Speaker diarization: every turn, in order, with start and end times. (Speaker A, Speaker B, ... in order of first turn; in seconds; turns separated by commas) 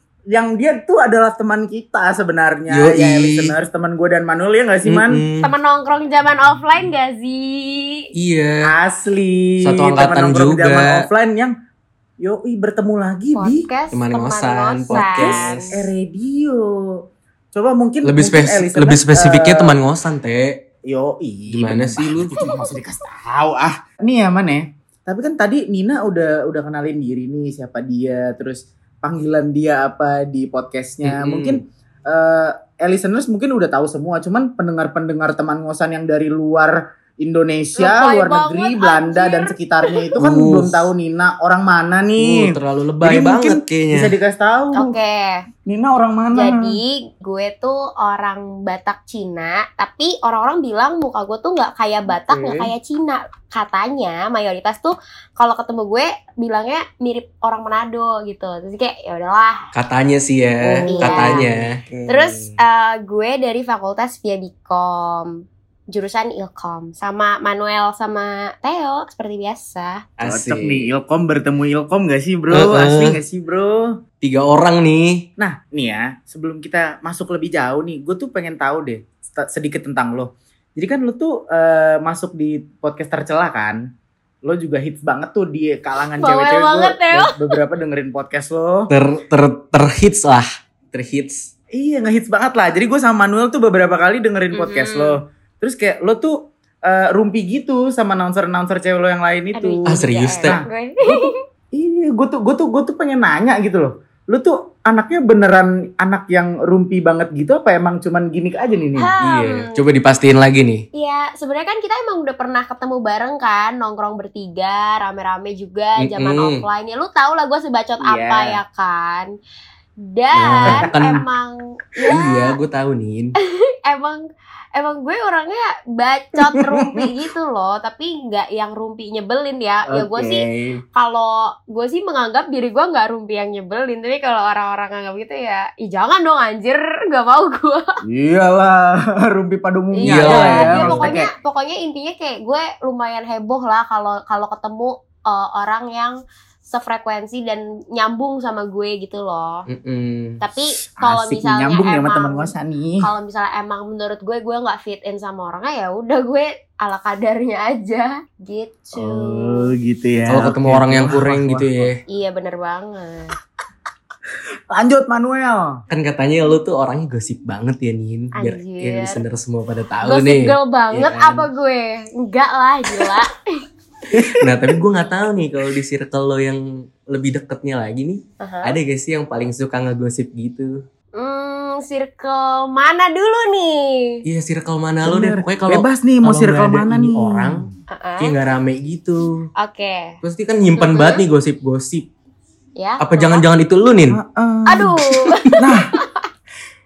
Speaker A: 0.3-5.2, Speaker B: 2.7-3.5, Speaker B: 4.8-5.5, Speaker C: 5.4-8.1, Speaker B: 8.1-8.6, Speaker A: 8.6-11.5, Speaker B: 9.6-11.1, Speaker A: 12.2-13.7, Speaker C: 13.3-15.7, Speaker B: 13.9-15.8, Speaker A: 14.9-17.0, Speaker A: 17.5-19.8, Speaker B: 18.0-20.6, Speaker A: 20.9-44.9, Speaker B: 21.5-22.4, Speaker C: 22.4-22.6, Speaker B: 31.0-31.6, Speaker C: 37.8-40.1, Speaker B: 40.2-40.9, Speaker B: 42.2-44.1, Speaker C: 44.8-45.5, Speaker A: 45.7-46.8, Speaker C: 46.3-59.6, Speaker B: 59.8-62.5, Speaker C: 60.6-61.5, Speaker A: 60.9-61.6, Speaker C: 62.1-70.0, Speaker B: 70.2-70.9, Speaker A: 70.2-73.9, Speaker B: 72.5-73.2, Speaker B: 74.2-75.3, Speaker A: 75.4-83.8, Speaker A: 84.5-88.9, Speaker C: 86.2-87.5, Speaker B: 88.9-91.5, Speaker A: 91.7-109.1, Speaker C: 94.5-95.2, Speaker C: 99.5-101.3, Speaker B: 99.9-100.6, Speaker C: 109.0-109.8, Speaker B: 109.2-110.8, Speaker C: 110.9-119.3, Speaker B: 116.0-116.6, Speaker A: 118.0-118.6, Speaker C: 120.0-122.5, Speaker B: 120.3-121.2, Speaker A: 120.6-120.9, Speaker B: 122.1-123.3, Speaker C: 123.6-124.2, Speaker C: 124.8-137.8, Speaker A: 126.6-127.1, Speaker A: 129.9-130.8, Speaker A: 138.1-141.3, Speaker C: 139.9-149.7, Speaker B: 140.1-141.1, Speaker B: 149.7-150.4, Speaker C: 150.4-159.7, Speaker A: 151.0-153.1, Speaker A: 158.9-161.9, Speaker B: 160.3-162.0, Speaker C: 162.1-163.3, Speaker A: 164.7-165.8, Speaker B: 165.9-171.5, Speaker C: 168.4-169.2, Speaker C: 170.0-173.6, Speaker A: 174.1-174.8, Speaker B: 174.3-180.8, Speaker C: 178.4-178.8, Speaker C: 181.2-184.2, Speaker B: 184.2-189.5, Speaker A: 185.1-187.6, Speaker C: 187.9-188.3, Speaker C: 189.6-190.2, Speaker B: 190.2-192.1, Speaker C: 190.8-191.2, Speaker C: 192.8-193.4, Speaker B: 193.0-194.2, Speaker A: 194.1-195.0, Speaker C: 194.7-196.2, Speaker A: 195.6-195.9